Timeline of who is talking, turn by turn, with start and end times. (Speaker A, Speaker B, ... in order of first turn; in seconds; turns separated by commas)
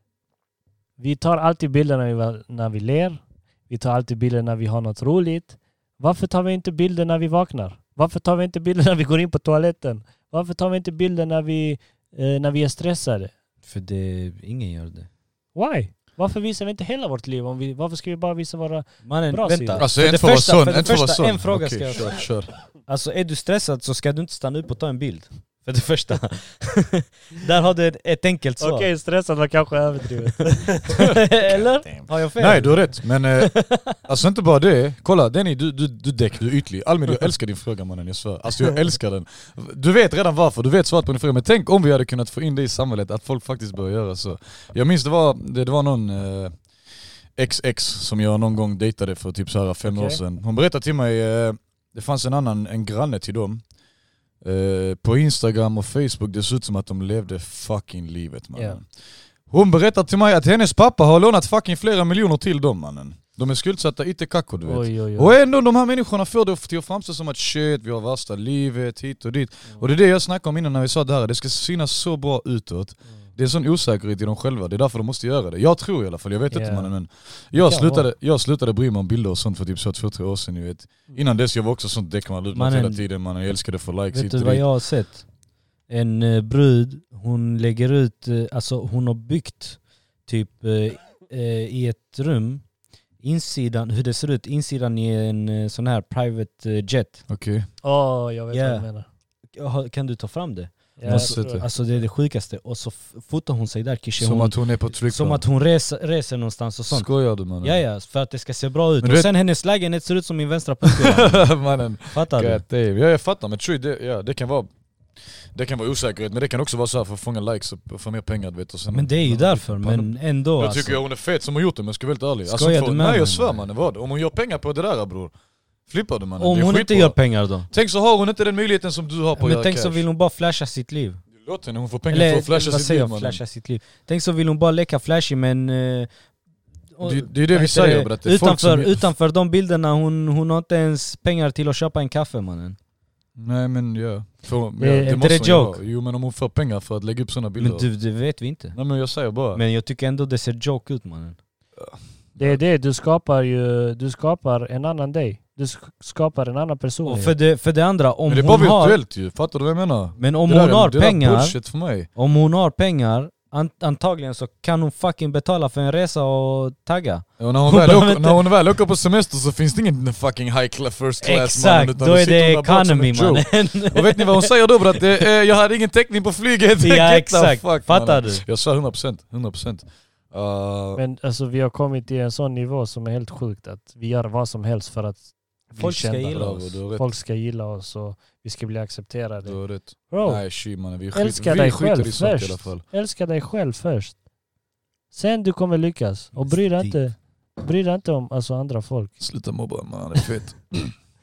Speaker A: 1.0-13.3, Speaker B: 13.6-15.1, Speaker A: 15.6-19.9, Speaker B: 19.0-28.9, Speaker C: 19.8-22.5, Speaker A: 28.6-31.1, Speaker B: 30.9-34.0, Speaker C: 31.9-46.6, Speaker C: 47.4-53.6, Speaker A: 49.8-50.2, Speaker C: 54.4-58.9, Speaker C: 59.5-84.7, Speaker A: 64.7-65.3, Speaker A: 76.5-76.9, Speaker A: 77.5-78.1, Speaker B: 82.5-83.0, Speaker B: 84.1-85.3, Speaker B: 85.9-92.7, Speaker B: 93.2-97.3, Speaker C: 97.3-97.7, Speaker A: 97.8-99.1, Speaker B: 98.5-98.9, Speaker B: 99.5-111.5, Speaker A: 101.0-101.7, Speaker C: 101.0-101.7, Speaker C: 104.2-105.4, Speaker C: 106.9-107.8, Speaker C: 109.0-109.3, Speaker C: 110.8-114.7, Speaker B: 112.1-112.6, Speaker C: 115.5-125.3, Speaker B: 118.9-121.0, Speaker B: 122.5-123.6, Speaker C: 125.9-127.2, Speaker B: 126.4-127.7, Speaker C: 127.7-130.1, Speaker B: 129.4-131.2, Speaker C: 131.3-133.4, Speaker B: 132.1-136.1, Speaker B: 136.9-142.8, Speaker C: 137.0-139.1, Speaker C: 143.4-147.9, Speaker A: 144.8-145.2, Speaker B: 145.0-145.8, Speaker B: 147.6-148.8, Speaker C: 148.7-149.6, Speaker B: 149.5-151.4, Speaker C: 151.8-152.6, Speaker A: 152.4-157.4, Speaker B: 157.1-159.0, Speaker C: 158.3-162.1, Speaker B: 160.2-168.6, Speaker C: 167.4-181.0, Speaker B: 171.2-175.1, Speaker B: 176.8-178.4, Speaker A: 181.0-190.5, Speaker B: 185.7-186.8, Speaker C: 186.3-187.1, Speaker C: 189.4-192.8, Speaker A: 191.1-194.2, Speaker A: 195.1-199.2, Speaker B: 196.4-197.0, Speaker C: 199.2-200.9